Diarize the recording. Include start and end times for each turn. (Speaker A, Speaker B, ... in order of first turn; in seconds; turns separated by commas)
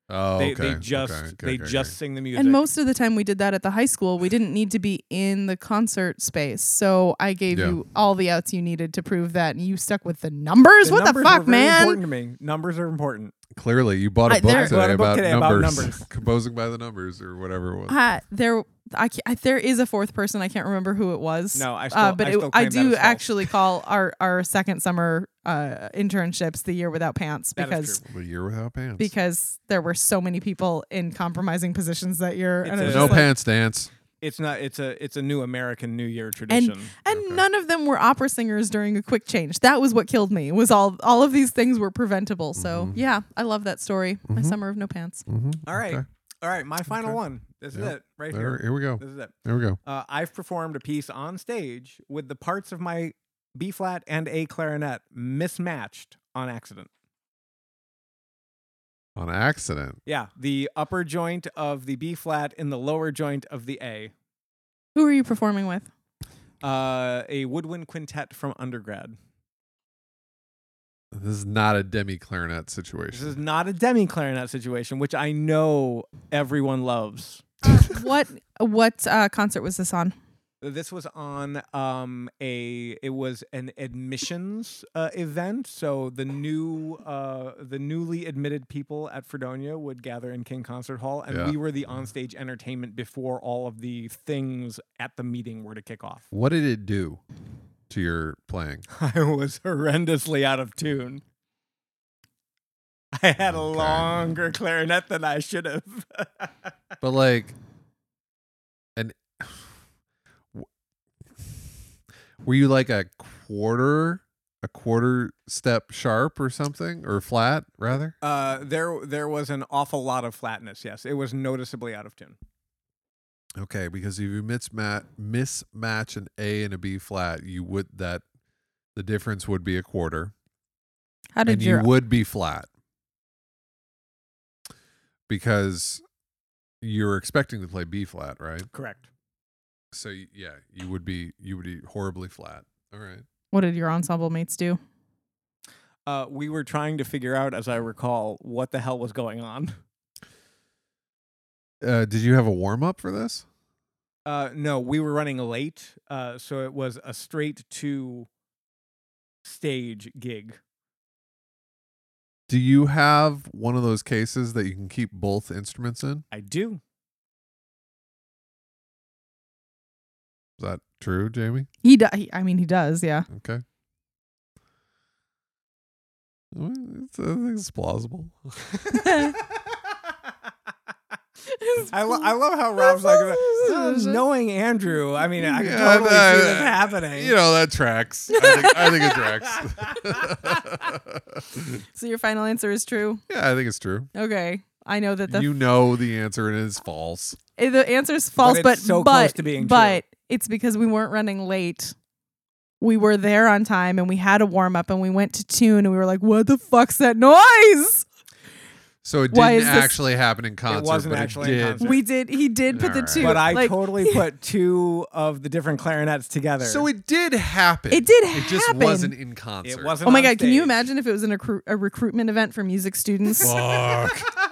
Speaker A: 0.1-1.9, Speaker B: 0.4-2.6, Speaker C: 2.3-12.0, Speaker A: 7.5-7.8, Speaker B: 10.8-13.3, Speaker A: 13.5-18.0, Speaker C: 14.3-14.8, Speaker B: 14.5-16.0, Speaker C: 17.9-28.0, Speaker B: 21.5-23.5, Speaker B: 27.6-28.0, Speaker A: 28.1-29.1, Speaker C: 29.0-33.3, Speaker B: 32.6-33.3, Speaker A: 32.8-33.9, Speaker B: 34.2-36.9, Speaker C: 36.5-45.2, Speaker A: 37.1-37.4, Speaker A: 42.5-43.0, Speaker A: 44.3-44.6, Speaker A: 45.3-46.0, Speaker B: 45.7-56.9, Speaker A: 46.9-47.2, Speaker A: 47.7-49.8, Speaker A: 59.1-60.0, Speaker B: 60.0-64.1, Speaker C: 64.9-65.9, Speaker B: 66.6-69.1, Speaker A: 71.1-73.3, Speaker B: 73.1-78.0, Speaker C: 77.7-80.1, Speaker B: 80.6-96.2, Speaker A: 91.3-91.5, Speaker A: 96.3-97.2, Speaker A: 97.9-98.8, Speaker B: 98.9-101.2, Speaker B: 103.1-106.7, Speaker A: 103.5-104.1, Speaker A: 107.0-107.5, Speaker A: 109.0-109.7, Speaker A: 112.4-118.2, Speaker B: 118.2-122.4, Speaker A: 123.6-128.2, Speaker A: 128.9-130.3, Speaker C: 131.3-131.9, Speaker A: 131.5-132.7, Speaker A: 135.3-136.0, Speaker A: 136.8-138.7, Speaker B: 138.7-139.0, Speaker A: 139.9-143.2, Speaker C: 143.5-144.8, Speaker B: 146.1-149.7, Speaker A: 151.8-153.4, Speaker B: 154.2-158.3, Speaker B: 159.4-160.6, Speaker A: 162.5-166.2, Speaker B: 166.3-166.8, Speaker A: 170.6-171.7, Speaker C: 171.8-173.3, Speaker A: 173.3-173.6, Speaker A: 176.5-178.6, Speaker C: 178.9-179.3, Speaker C: 181.4-184.2, Speaker B: 181.9-187.4, Speaker A: 185.6-191.8, Speaker C: 188.3-189.2, Speaker B: 188.6-190.5, Speaker C: 191.9-193.2, Speaker A: 193.3-194.1, Speaker C: 194.1-195.5, Speaker A: 195.3-197.4, Speaker C: 197.6-201.9, Speaker B: 198.4-200.0, Speaker C: 202.8-208.1, Speaker A: 209.0-212.0, Speaker C: 209.3-209.9, Speaker B: 210.7-212.0, Speaker C: 211.8-214.2, Speaker A: 212.7-213.6, Speaker B: 213.2-216.9, Speaker A: 216.6-219.9, Speaker C: 217.9-219.1, Speaker B: 219.6-220.8, Speaker C: 220.0-223.5, Speaker A: 223.4-224.3